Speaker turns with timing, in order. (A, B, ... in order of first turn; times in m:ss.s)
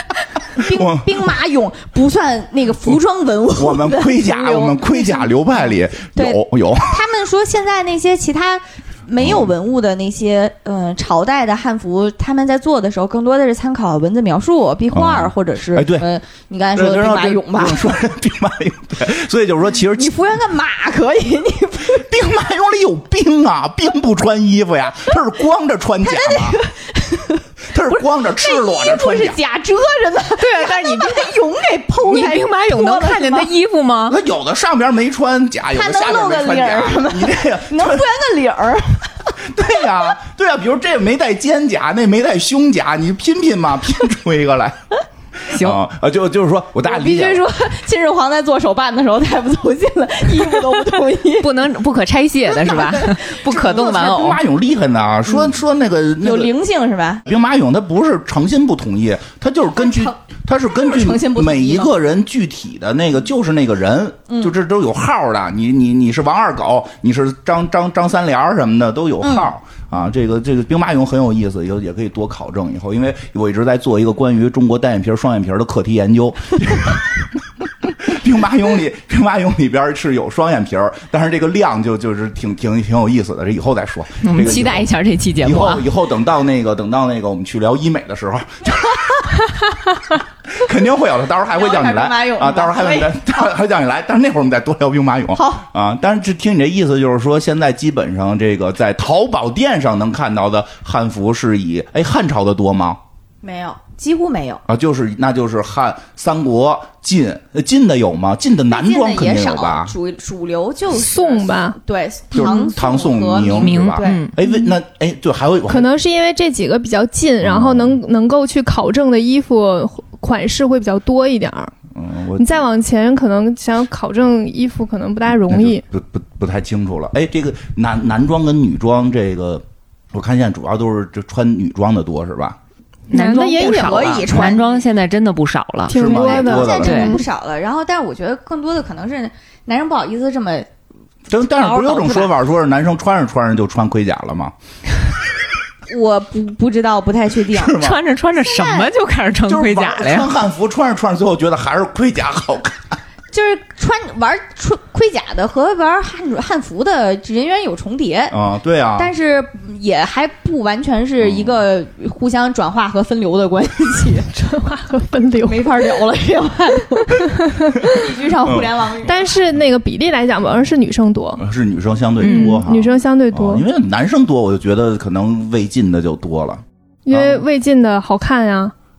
0:00.5-0:05.3 A
0:00.6-0:01.2 B
0:03.5-0:07.0 B
0:06.1-0:18.0 A
0:09.2-0:09.5 B
0:14.9-0:16.0 B
0:16.7-0:20.2 B
0:19.9-0:22.0 A
0:21.9-0:26.6 B
0:26.0-0:33.5 A
0:27.7-0:29.4 B
0:32.0-0:34.2 C
0:34.1-0:38.1 B
0:35.7-0:39.1 A
0:39.4-0:44.8 B
0:45.5-0:45.8 C
0:45.5-0:47.4 B
0:46.8-0:51.5 A
0:51.4-0:54.4 C
0:52.5-0:53.9 A
0:53.5-0:56.5 B
0:56.2-0:57.2 A
0:57.2-1:17.3 B
0:59.8-1:00.2 A
1:00.7-1:01.9 A
1:09.2-1:09.5 A
1:17.8-1:24.9 B
1:24.2-1:25.8 C
1:25.4-1:29.4 B
1:30.5-1:43.0 B
1:31.5-1:33.4 A
1:35.3-1:35.6 A
1:43.4-1:44.6 A
1:44.7-1:49.9 B
1:48.7-1:54.2 A
1:50.9-1:51.8 D
1:52.3-1:55.9 B
1:53.6-1:54.3 C
1:55.7-2:01.7 D
1:57.4-1:58.0 B
2:01.9-2:02.7 B
2:02.4-2:05.8 D
2:05.5-2:12.6 B
2:13.1-2:17.2 C
2:13.1-2:14.3 D
2:13.2-2:14.8 A
2:15.9-2:17.2 D
2:15.9-2:17.1 B
2:16.1-2:20.7 A
2:21.3-2:24.5 B
2:21.5-2:22.3 A
2:25.9-2:27.8 A
2:27.5-2:28.0 B
2:27.7-2:30.3 C
2:28.4-2:28.9 A
2:29.5-2:33.0 B
2:33.3-2:38.4 A
2:38.3-2:39.1 B
2:39.0-2:44.3 A
2:41.2-2:41.6 B
2:44.3-2:45.6 D
2:45.4-2:49.2 A
2:47.4-2:48.0 D
2:48.4-2:48.7 B
2:49.0-2:51.4 D
2:51.4-2:57.4 B
2:52.2-2:52.6 C
2:52.2-2:53.6 D
2:57.0-2:58.7 D